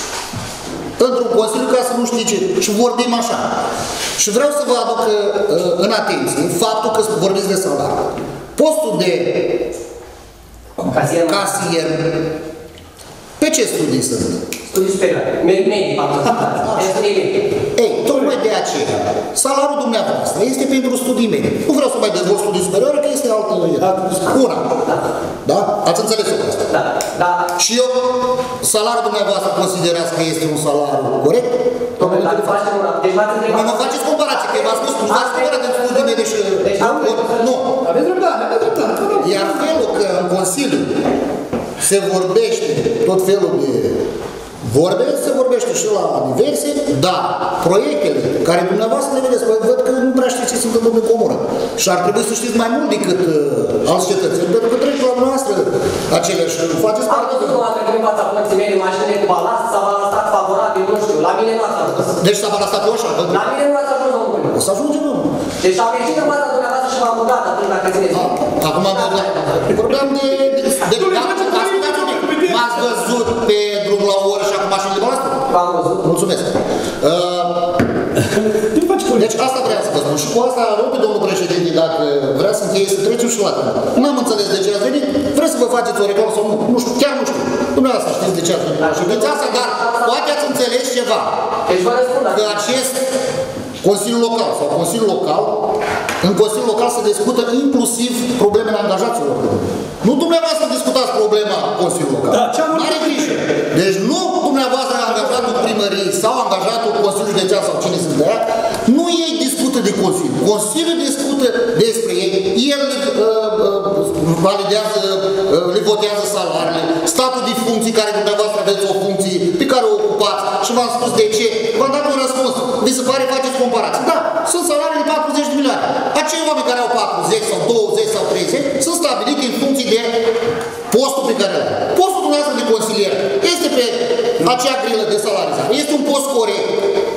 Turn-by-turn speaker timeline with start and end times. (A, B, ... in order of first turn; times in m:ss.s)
0:01.0-0:03.5 A
0:04.2-0:09.6 A
0:10.8-0:12.2 A
0:10.9-0:11.6 B
0:13.4-0:14.4 A
0:14.7-0:17.4 B
0:16.6-0:17.0 A
0:17.8-0:24.6 A
0:23.8-0:24.2 C
0:25.4-0:26.6 A
0:26.7-0:27.5 B
0:27.6-0:32.6 A
0:32.0-0:37.5 B
0:33.5-0:37.7 A
0:37.8-0:39.8 C
0:39.2-0:40.9 A
0:41.8-0:44.0 A
0:44.6-0:57.6 A
0:57.1-1:02.1 B
1:02.0-1:03.5 A
1:03.3-1:04.6 B
1:04.5-1:05.3 A
1:05.6-1:09.5 B
1:08.1-1:15.4 A
1:10.9-1:13.0 C
1:15.5-1:16.0 B
1:16.0-1:17.8 A
1:18.4-1:19.3 C
1:19.1-1:31.3 A
1:28.8-1:30.5 B
1:31.7-1:32.7 B
1:32.3-1:33.0 A
1:33.8-2:10.2 A
1:42.3-1:43.4 C
2:10.9-2:16.8 A